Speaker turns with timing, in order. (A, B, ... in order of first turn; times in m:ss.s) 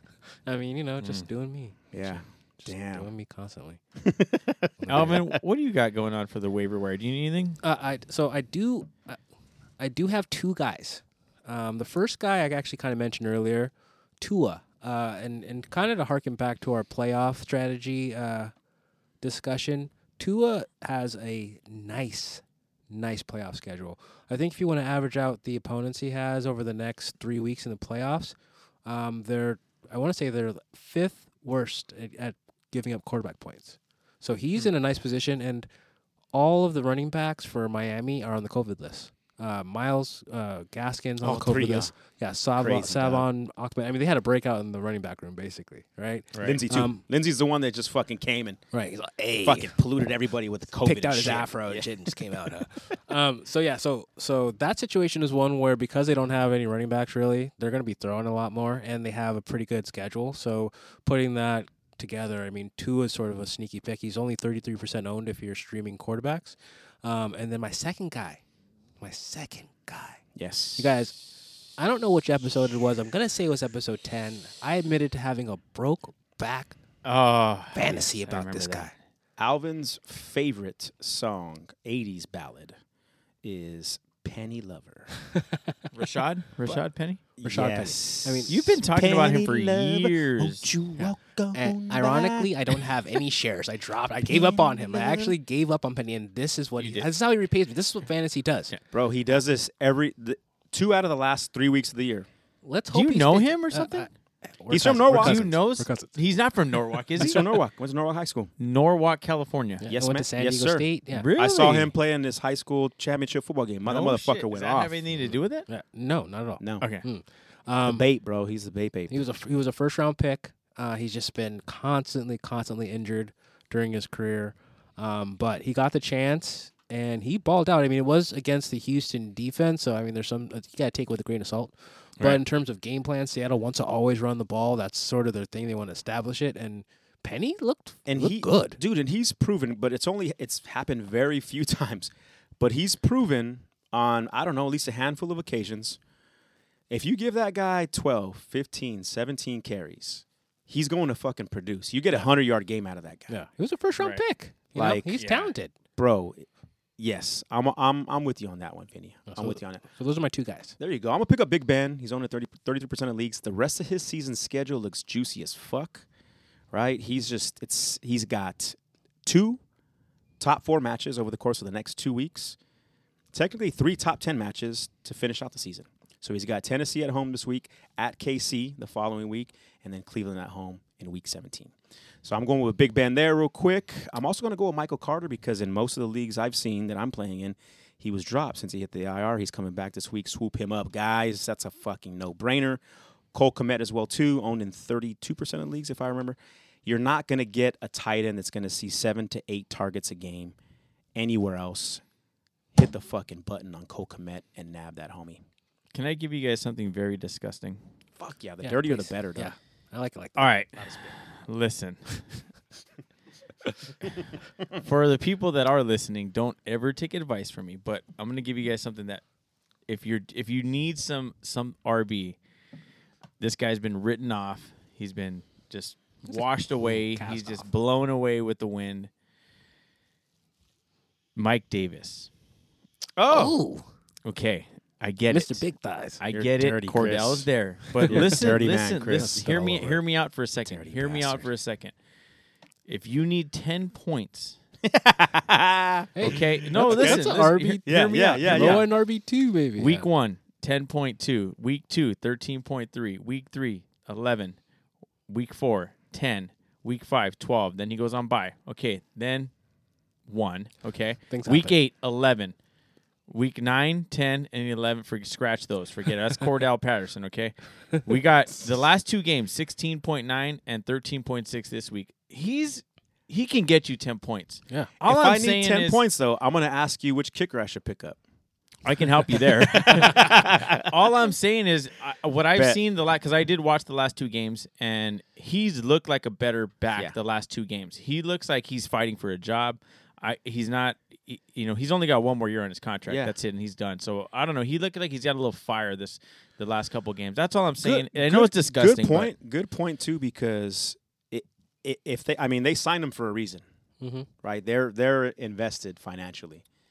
0:00.4-0:03.8 A
0:01.0-0:01.2 B
0:01.9-0:03.1 C
0:04.0-0:05.4 C
0:04.8-0:05.2 A
0:04.9-0:07.6 B
0:07.6-0:09.2 A
0:09.8-0:18.5 A
0:19.2-0:35.7 A
0:36.3-0:47.0 A
0:41.2-0:41.9 C
0:42.6-0:43.2 C
0:46.3-0:46.6 B
0:46.4-0:48.6 C
0:48.7-0:49.8 A
0:49.4-0:52.5 C
0:50.8-1:08.4 A
1:09.0-1:10.2 A
1:10.4-1:10.9 C
1:10.8-1:11.2 A
1:11.8-1:16.8 A
1:17.0-1:18.9 B
1:17.7-1:18.9 A
1:19.4-1:22.8 C
1:23.4-1:25.1 C
1:25.9-1:27.2 B
1:27.4-1:32.5 C
1:27.4-1:28.6 A
1:28.5-1:31.1 B
1:31.5-1:38.7 A
1:34.3-1:35.3 C
1:36.8-1:37.1 B
1:38.9-1:42.3 C
1:42.6-1:46.1 A
1:42.9-1:44.1 B
1:44.7-1:45.6 C
1:45.1-1:47.5 B
1:47.2-1:48.5 C
1:48.6-1:49.9 B
1:49.8-1:51.3 A
1:49.9-1:55.4 C
1:51.1-1:51.9 B
1:53.8-1:55.7 B
1:55.7-1:58.0 A
1:56.6-1:56.8 C
1:57.8-1:59.2 C
1:59.1-2:18.8 A
2:18.0-2:26.0 C
2:26.9-2:33.3 C
2:33.3-2:35.7 A
2:34.0-2:34.2 B
2:34.7-2:35.2 C
2:35.2-2:35.5 B
2:36.0-2:39.8 C
2:39.3-2:40.8 A
2:40.8-2:46.0 C
2:46.7-2:49.6 C
2:50.4-2:52.6 C
2:53.3-3:12.8 C
3:13.3-3:20.6 C
3:21.1-3:22.0 C
3:22.7-3:25.4 C
3:25.9-3:27.8 B
3:28.2-3:29.5 C
3:28.6-3:31.1 A
3:30.4-3:32.4 B
3:34.7-3:39.2 B
3:39.9-3:42.4 B
3:43.4-3:49.1 B
3:46.2-3:47.6 A
3:51.4-3:52.3 B
3:53.2-3:53.6 C
3:53.3-3:53.9 A
3:54.2-3:55.6 B
3:55.3-3:56.2 A
3:56.2-4:01.9 B
3:56.3-3:57.5 C
3:57.9-3:58.4 A
3:58.0-4:00.0 C
3:59.2-3:59.6 A
4:00.6-4:01.5 C
4:02.9-4:04.6 B
4:04.8-4:08.8 C
4:06.1-4:10.1 A
4:06.2-4:08.9 B
4:09.8-4:14.6 B
4:15.3-4:19.5 B
4:20.3-4:22.5 B
4:21.3-4:21.7 A
4:23.3-4:36.0 B
4:35.0-4:38.2 C
4:38.8-4:59.3 B
4:39.3-4:41.1 C
4:53.1-4:53.3 C
4:57.8-5:03.6 C
5:04.0-5:04.3 A
5:04.4-5:06.6 C